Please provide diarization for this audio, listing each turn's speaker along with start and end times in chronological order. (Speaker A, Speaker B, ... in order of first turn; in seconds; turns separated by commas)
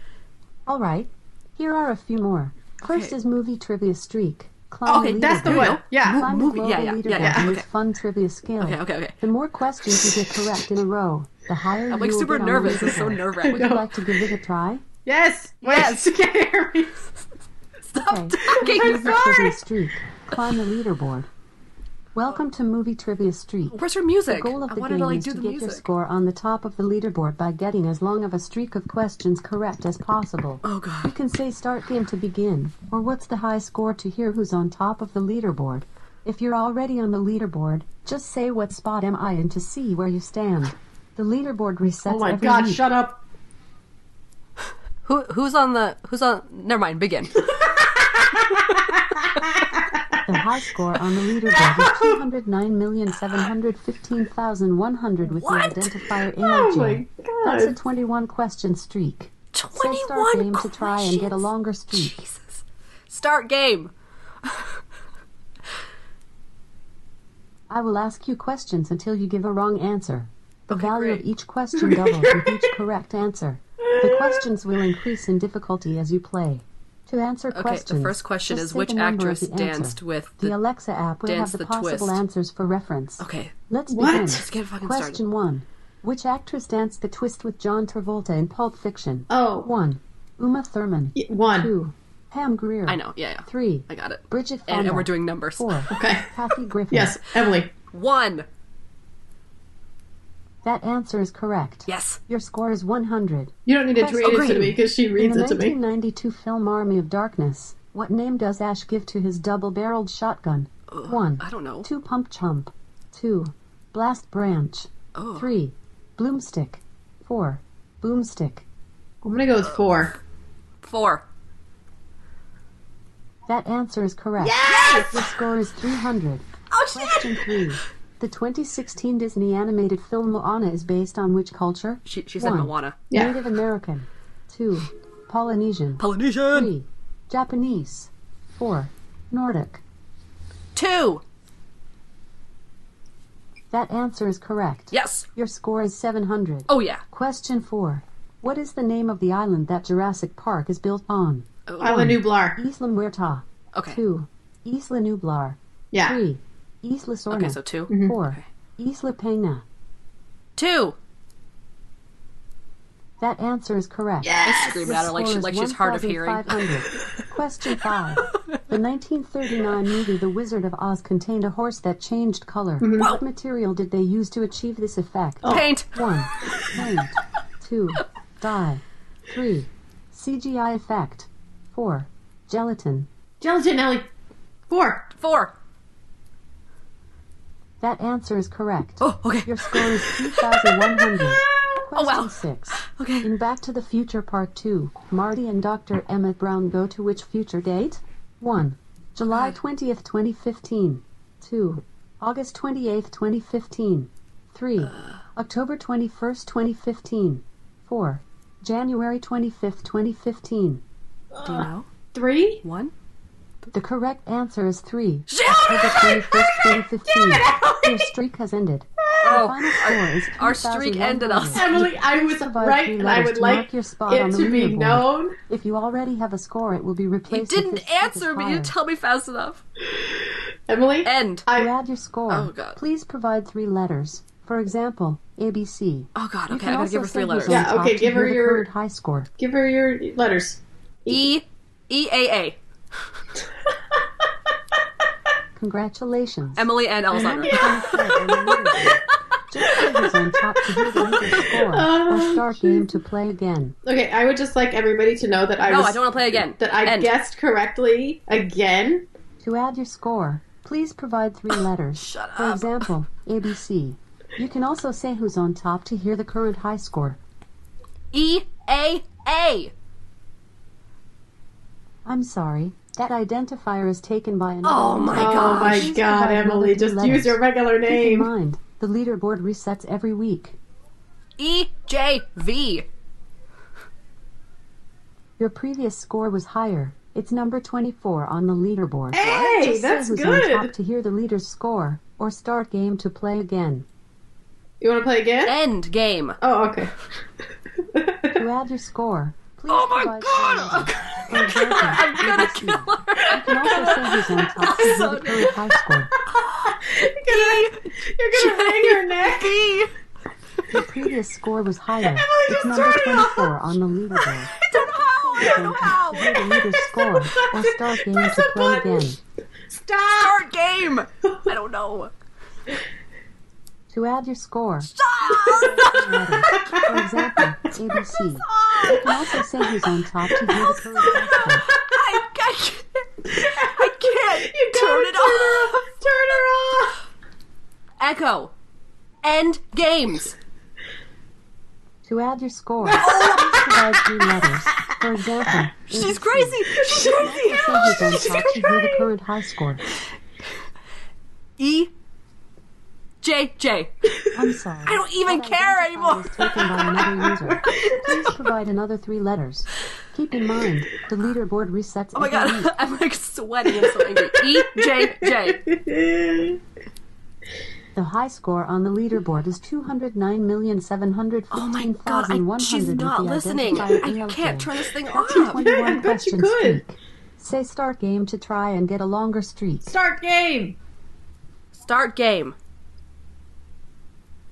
Speaker A: 0.7-14.8, Speaker B: 2.8-3.1, Speaker C: 4.8-6.2, Speaker B: 5.4-7.7, Speaker C: 7.2-7.5, Speaker B: 8.6-9.2, Speaker B: 11.9-13.7, Speaker C: 13.5-14.1, Speaker C: 15.0-16.9, Speaker B: 15.6-16.1, Speaker B: 17.9-19.6, Speaker A: 18.0-21.3, Speaker C: 18.5-19.6, Speaker A: 22.1-23.8, Speaker B: 23.6-25.8, Speaker A: 24.3-42.8, Speaker B: 30.6-31.1, Speaker C: 42.0-43.2, Speaker B: 45.0-47.6, Speaker C: 47.8-50.4, Speaker A: 50.3-62.1, Speaker C: 51.5-52.2, Speaker B: 55.2-55.9, Speaker C: 56.4-57.8, Speaker B: 59.5-63.9, Speaker A: 67.7-97.2, Speaker B: 70.7-71.2, Speaker C: 71.8-72.6, Speaker C: 73.9-74.5, Speaker B: 77.5-80.6, Speaker B: 81.2-82.2, Speaker B: 83.2-83.5, Speaker C: 83.9-84.4, Speaker B: 84.2-85.2, Speaker C: 89.3-89.7, Speaker C: 91.2-91.7, Speaker B: 92.9-95.9, Speaker C: 95.9-96.4, Speaker C: 96.9-97.7, Speaker B: 97.9-98.5, Speaker A: 100.6-118.6, Speaker B: 101.9-102.2, Speaker C: 103.7-105.8, Speaker B: 110.9-111.9, Speaker B: 115.1-115.5, Speaker C: 119.2-120.1, Speaker B: 120.8-121.2, Speaker A: 123.5-139.8, Speaker B: 124.4-125.3, Speaker C: 124.7-125.0, Speaker B: 126.7-127.6, Speaker B: 132.0-133.0, Speaker C: 133.1-133.4, Speaker B: 136.0-136.7, Speaker B: 140.7-141.2, Speaker A: 143.7-159.6, Speaker B: 144.9-145.3, Speaker B: 146.7-147.0, Speaker B: 151.7-152.1, Speaker C: 151.8-152.6, Speaker B: 153.7-154.0, Speaker C: 155.9-156.2, Speaker B: 157.3-158.4, Speaker C: 157.9-158.2, Speaker B: 160.6-160.9, Speaker A: 163.2-183.1, Speaker C: 164.2-164.9, Speaker B: 164.4-166.7, Speaker C: 172.8-173.2, Speaker C: 175.4-175.7, Speaker B: 175.4-175.9, Speaker C: 183.4-184.1, Speaker C: 184.7-185.1, Speaker B: 185.2-185.5, Speaker A: 187.8-210.8, Speaker B: 189.0-190.5, Speaker B: 191.9-193.3, Speaker B: 199.3-199.6, Speaker B: 204.8-205.2, Speaker C: 211.3-212.6, Speaker B: 211.4-211.9, Speaker B: 212.6-212.9, Speaker A: 213.7-228.7, Speaker B: 215.3-216.7, Speaker C: 217.1-218.1, Speaker C: 219.2-219.5, Speaker B: 219.2-221.6, Speaker C: 221.5-225.4, Speaker B: 227.3-229.6, Speaker C: 229.9-231.7, Speaker B: 231.0-231.5, Speaker A: 231.5-239.3, Speaker B: 232.3-232.8, Speaker B: 236.1-237.7, Speaker C: 237.5-238.7, Speaker C: 239.4-241.3, Speaker B: 241.1-242.6, Speaker A: 245.6-253.8, Speaker B: 246.6-248.3, Speaker C: 247.5-247.8, Speaker C: 251.3-252.9, Speaker C: 253.8-259.1, Speaker B: 255.6-257.1, Speaker A: 259.4-267.2, Speaker B: 261.5-262.9, Speaker B: 268.1-269.7, Speaker A: 272.1-280.6, Speaker B: 274.6-275.9, Speaker C: 275.1-278.3, Speaker B: 281.4-282.9, Speaker A: 285.4-293.9, Speaker C: 289.1-290.7, Speaker B: 289.2-289.5, Speaker C: 294.8-295.6, Speaker B: 295.4-296.4, Speaker C: 296.4-296.9, Speaker C: 297.8-298.4, Speaker A: 298.4-306.1, Speaker B: 299.7-305.5, Speaker C: 306.4-309.6, Speaker B: 306.4-306.8, Speaker B: 307.3-309.9, Speaker A: 310.7-314.6, Speaker C: 312.0-313.5, Speaker B: 314.6-316.6, Speaker A: 315.2-319.2, Speaker C: 317.2-319.2, Speaker C: 319.7-320.4, Speaker B: 320.1-322.1, Speaker A: 323.9-324.9, Speaker B: 324.8-326.8, Speaker C: 325.6-325.9, Speaker A: 325.8-331.7, Speaker C: 326.5-327.5, Speaker B: 328.3-329.1, Speaker C: 328.7-329.0, Speaker C: 330.3-331.5, Speaker B: 331.2-335.8, Speaker C: 333.3-336.9, Speaker B: 338.0-338.5, Speaker B: 339.2-340.4, Speaker A: 342.1-349.8, Speaker C: 342.8-345.6, Speaker B: 343.0-343.6, Speaker B: 345.9-348.3, Speaker C: 348.0-349.0, Speaker B: 351.6-351.9, Speaker B: 353.2-354.1, Speaker A: 354.3-362.8, Speaker B: 354.8-356.6, Speaker C: 356.9-358.2, Speaker B: 362.1-365.6, Speaker C: 363.9-366.6, Speaker A: 367.9-379.9, Speaker B: 371.5-375.6, Speaker C: 375.3-376.8, Speaker C: 379.9-380.8, Speaker B: 381.7-382.6